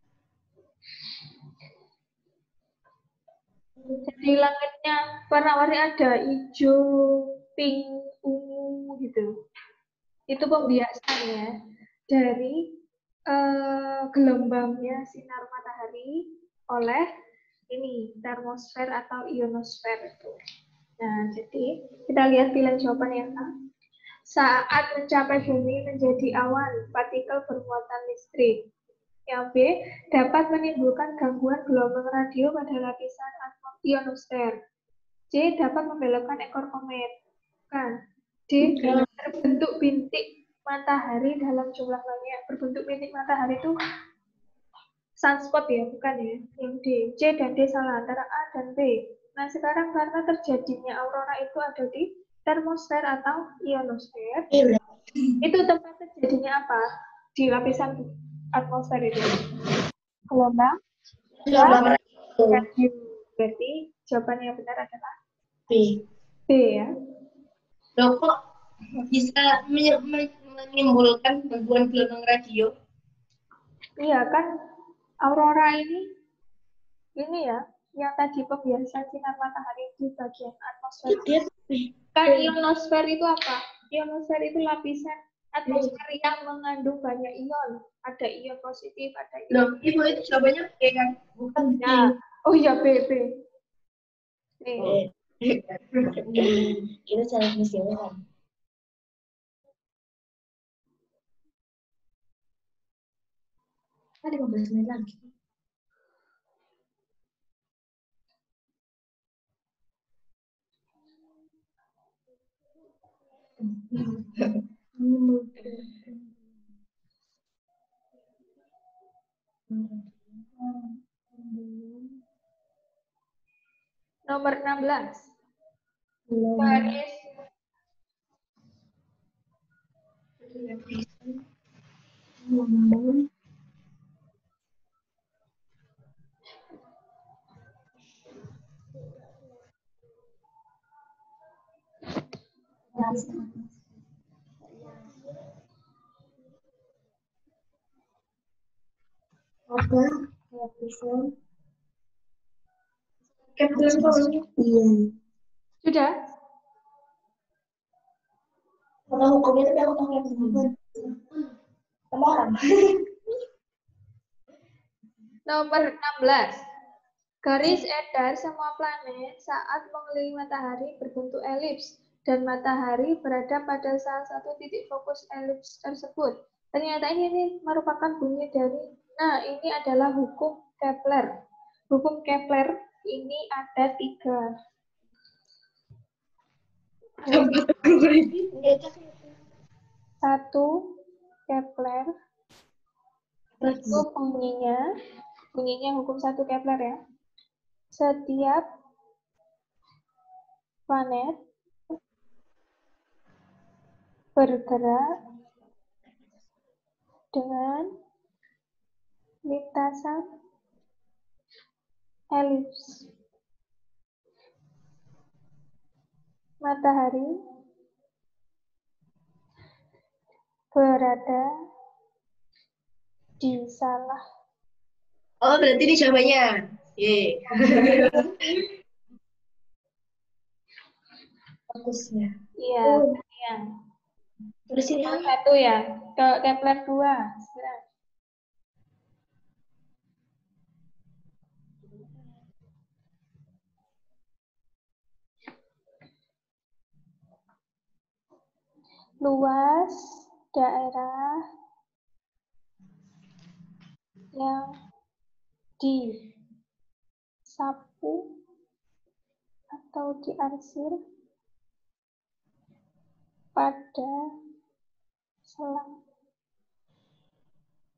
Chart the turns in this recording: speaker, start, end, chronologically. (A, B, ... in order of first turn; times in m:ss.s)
0:04.0-0:09.3 A
0:10.3-0:11.5 A
0:12.1-0:12.6 A
0:13.3-0:16.2 A
0:16.7-0:17.0 A
0:17.7-0:20.4 A
0:21.0-0:23.5 A
0:24.3-0:28.6 A
0:29.3-0:34.5 A
0:35.3-0:37.1 A
0:38.5-0:43.7 A
0:45.2-0:54.5 A
0:55.4-0:56.8 A
0:57.4-0:59.4 A
1:00.3-1:00.8 A
1:01.5-1:02.5 B
1:01.5-1:01.9 A
1:02.4-1:05.1 A
1:05.7-1:06.0 C
1:06.5-1:06.9 A
1:08.0-1:08.3 B
1:09.1-1:12.7 B
1:14.0-1:14.5 A
1:15.2-1:16.0 A
1:17.2-1:21.4 A
1:21.1-1:22.5 C
1:22.2-1:29.8 A
1:29.5-1:31.9 B
1:31.8-1:33.3 A
1:34.6-1:35.0 A
1:34.8-1:36.7 B
1:36.3-1:38.2 C
1:44.2-1:45.2 C
1:53.6-1:54.1 C
1:55.0-1:56.3 C
1:59.7-2:02.1 C
2:04.3-2:05.3 A
2:06.3-2:06.9 C
2:06.6-2:07.2 A
2:10.5-2:11.0 B
2:12.4-2:13.2 C
2:22.9-2:23.5 C
2:29.7-2:31.3 C
2:33.6-2:34.3 B
2:33.7-2:35.0 C
2:35.8-2:36.1 A
2:39.1-2:40.7 C
2:42.1-2:42.6 C
2:45.5-2:46.6 A
2:47.4-3:01.3 A
3:01.9-3:04.4 A
3:07.3-3:08.5 B
3:08.6-3:09.1 C
3:10.2-3:10.7 A
3:11.5-3:12.1 A
3:13.6-3:14.0 C
3:13.9-3:14.8 A
3:15.5-3:17.0 A
3:17.9-3:18.6 A
3:20.9-3:21.3 A
3:24.4-3:25.0 A
3:27.3-3:27.9 A
3:29.5-3:30.2 A
3:32.3-3:33.0 A
3:36.6-3:37.3 A
3:40.7-3:41.4 A
3:43.4-3:44.2 A
3:45.4-3:48.6 B
3:47.7-3:48.2 C
3:51.7-3:52.3 C
3:52.6-3:53.6 A
3:52.8-3:53.1 C
3:54.7-3:55.3 C
3:55.0-3:57.8 A
4:09.2-4:11.4 A
4:14.4-4:14.6 A
4:15.8-4:16.2 A
4:17.5-4:18.2 A
4:19.7-4:20.9 A
4:23.6-4:24.1 A
4:25.5-4:25.9 A